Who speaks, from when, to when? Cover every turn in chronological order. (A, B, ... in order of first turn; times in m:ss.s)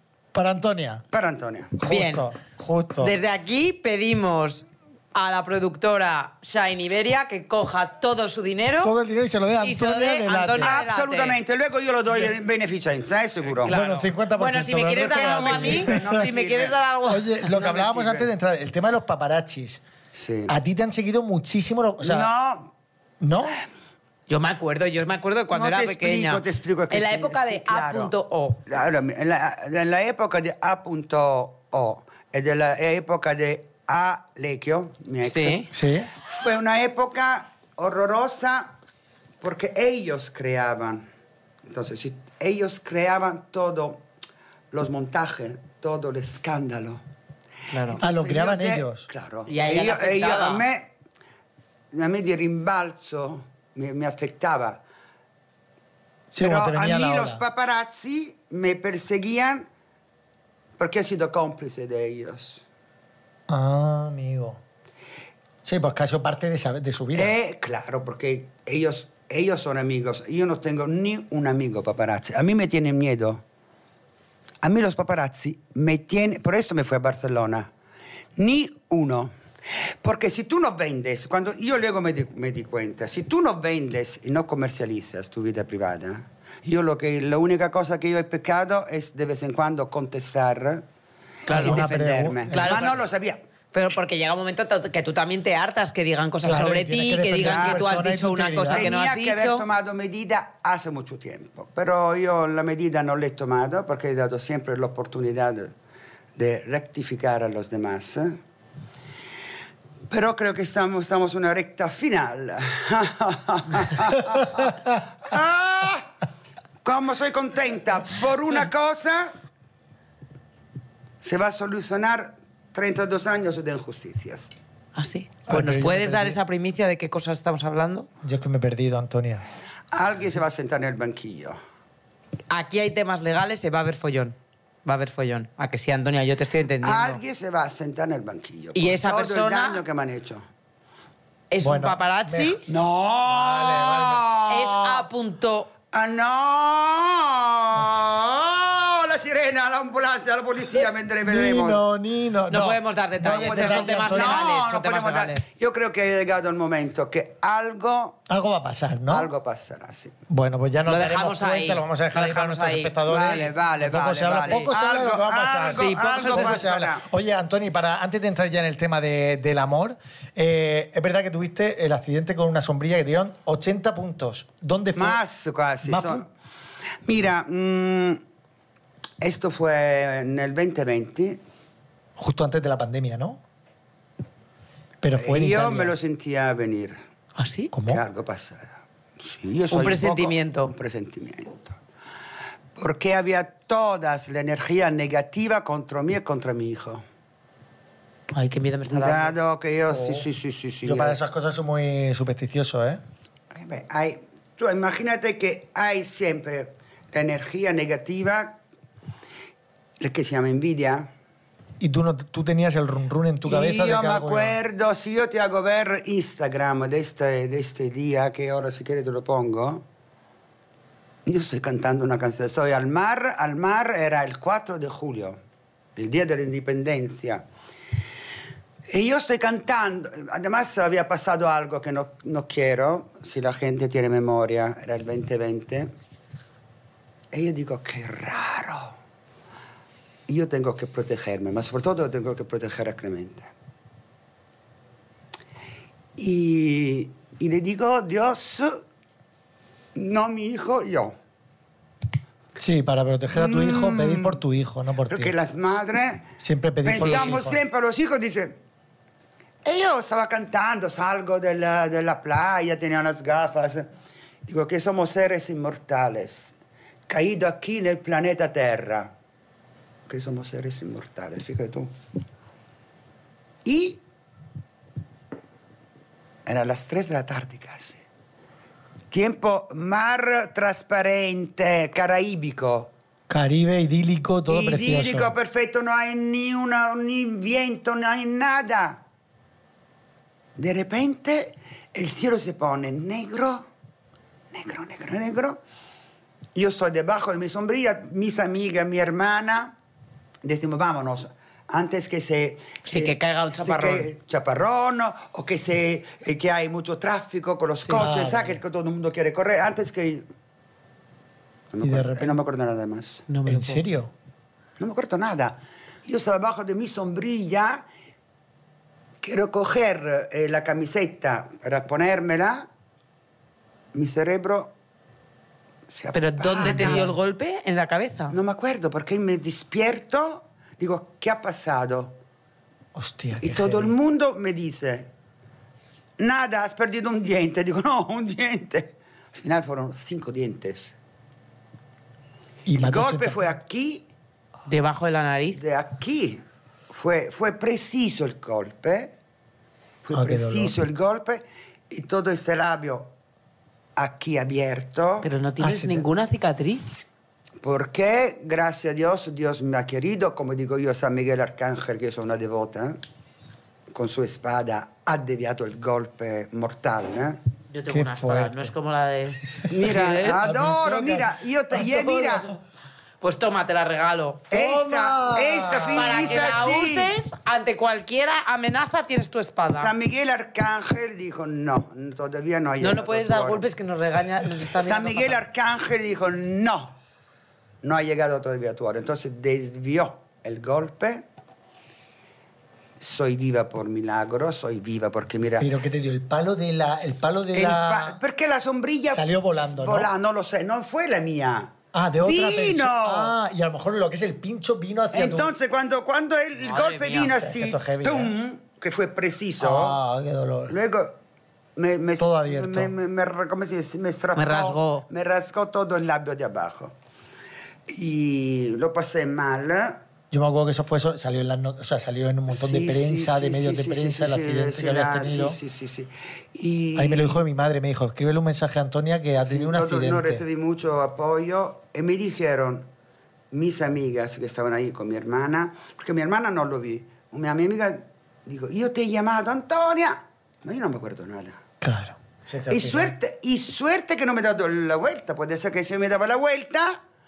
0:00.3-0:01.0 A
0:01.1-0:01.8 B
0:01.8-0:03.1 A
0:01.9-0:02.2 C
0:03.0-0:08.9 C
0:08.8-0:10.7 A
0:09.6-0:11.4 C
0:10.6-0:13.8 B
0:13.6-0:17.5 C
0:13.6-0:16.2 A
0:14.9-0:16.8 B
0:17.1-0:19.8 A
0:17.5-0:18.3 B
0:20.1-0:20.5 B
0:20.5-0:22.3 A
0:22.0-0:22.7 B
0:23.2-0:23.6 A
0:24.3-0:28.6 C
0:25.5-0:28.1 B
0:28.6-0:35.6 B
0:35.2-0:35.7 C
0:35.7-0:36.1 A
0:36.2-0:38.7 B
0:39.4-0:41.0 B
0:41.7-0:44.0 B
0:44.7-0:47.0 B
0:47.7-0:48.0 C
0:47.8-0:50.9 B
0:48.0-0:49.0 A
0:49.5-0:50.6 C
0:51.9-0:54.8 B
0:56.3-0:57.4 A
0:56.3-0:59.6 B
1:00.8-1:02.6 B
1:03.5-1:04.6 A
1:05.6-1:07.4 A
1:07.1-1:13.4 B
1:14.6-1:17.7 B
1:18.4-1:19.3 B
1:20.0-1:30.8 B
1:31.5-1:31.9 C
1:31.5-1:33.4 B
1:31.5-1:32.9 A
1:32.5-1:33.0 C
1:33.7-1:39.6 C
1:36.4-1:38.9 A
1:37.4-1:37.8 B
1:38.7-1:45.7 B
1:46.4-1:48.4 B
1:50.1-1:56.1 B
1:56.8-1:59.3 B
2:01.2-2:04.5 B
2:04.9-2:08.1 C
2:05.5-2:06.4 A
2:08.2-2:09.4 A
2:09.9-2:11.6 B
2:12.5-2:17.2 C
2:16.8-2:20.4 B
2:18.7-2:19.8 C
2:21.5-2:22.6 C
2:21.6-2:22.7 A
2:22.7-2:25.0 B
2:23.2-2:24.3 A
2:24.5-2:25.7 C
2:25.9-2:31.8 B
2:31.2-2:34.4 A
2:32.5-2:35.5 C
2:33.3-2:38.2 B
2:38.3-2:39.3 A
2:39.1-2:40.1 B
2:40.3-2:55.2 A
2:40.9-2:42.9 C
2:43.0-2:47.0 B
2:44.4-2:44.7 C
2:45.7-2:46.7 C
2:54.9-2:56.3 B
2:55.8-2:56.2 A
2:57.0-2:58.2 B
2:59.2-3:01.4 B
3:02.2-3:03.4 A
3:05.0-3:05.9 A
3:05.1-3:07.0 B
3:07.4-3:07.7 C
3:07.7-3:08.0 A
3:07.8-3:11.8 B
3:09.7-3:10.7 C
3:12.8-3:17.0 B
3:18.3-3:19.3 C
3:18.9-3:21.2 B
3:19.9-3:20.2 A
3:20.8-3:23.0 A
3:23.5-3:28.6 B
3:30.0-3:31.1 B
3:31.8-3:34.6 A
3:33.4-3:39.8 B
3:41.2-3:45.4 B
3:46.0-3:47.4 B
3:48.9-3:55.9 B
3:57.3-3:59.0 B
4:00.3-4:03.5 B
4:06.2-4:08.8 B
4:09.9-4:11.1 B
4:12.6-4:15.3 A
4:13.3-4:14.4 B
4:15.1-4:16.3 B
4:16.4-4:17.6 A
4:16.8-4:18.6 B
4:17.0-4:17.3 C
4:19.6-4:23.9 B
4:24.4-4:26.5 B
4:27.1-4:29.1 B
4:30.1-4:31.9 B
4:33.6-4:34.0 B
4:36.4-4:38.0 B
4:39.1-4:42.9 B
4:43.3-4:45.3 A
4:44.5-4:49.0 B
4:50.6-4:53.6 B
4:54.5-4:55.6 B
4:56.5-4:59.7 B
5:00.4-5:10.2 B
5:02.8-5:04.1 C
5:07.9-5:08.6 A
5:11.7-5:13.2 B
5:11.8-5:12.4 A
5:13.3-5:13.8 C
5:13.4-5:14.1 A
5:14.8-5:17.8 B
5:19.2-5:22.6 B
5:23.9-5:24.7 B
5:25.9-5:27.1 B
5:26.1-5:28.4 C
5:26.6-5:27.1 A
5:28.3-5:32.2 B
5:32.9-5:33.9 A
5:33.4-5:35.1 B
5:36.2-5:40.9 B
5:42.6-5:43.4 A
5:42.8-5:44.0 B
5:44.7-5:45.6 C
5:45.6-5:49.1 B
5:50.0-5:53.1 B
5:50.1-5:50.8 A
5:54.0-5:55.3 B
5:55.2-5:56.8 C
5:55.6-5:56.0 A
5:57.6-6:03.0 B
6:03.9-6:07.4 B
6:07.7-6:10.4 C
6:07.9-6:08.7 A
6:09.7-6:12.5 B
6:10.1-6:12.4 A
6:13.2-6:14.5 C
6:14.5-6:17.1 B
6:14.5-6:16.3 A
6:15.9-6:19.9 C
6:19.7-6:23.6 B
6:22.8-6:25.4 C
6:24.8-6:26.9 B
6:27.8-6:31.2 B
6:33.0-6:35.7 B
6:35.6-6:38.2 A
6:37.5-6:43.3 B
6:39.1-6:40.1 A
6:41.9-6:45.5 A
6:45.1-6:50.0 B
6:46.6-6:47.4 C
6:47.4-6:48.3 A
6:49.6-6:50.8 A
6:50.7-6:51.2 B
6:51.8-6:56.9 B
6:52.2-6:52.9 A
6:54.3-6:55.0 C
6:57.9-7:00.0 B
7:00.3-7:05.6 A
7:02.5-7:07.4 B
7:07.0-7:10.4 A
7:09.4-7:12.9 B
7:13.5-7:21.6 B
7:21.8-7:23.1 A
7:22.7-7:27.0 B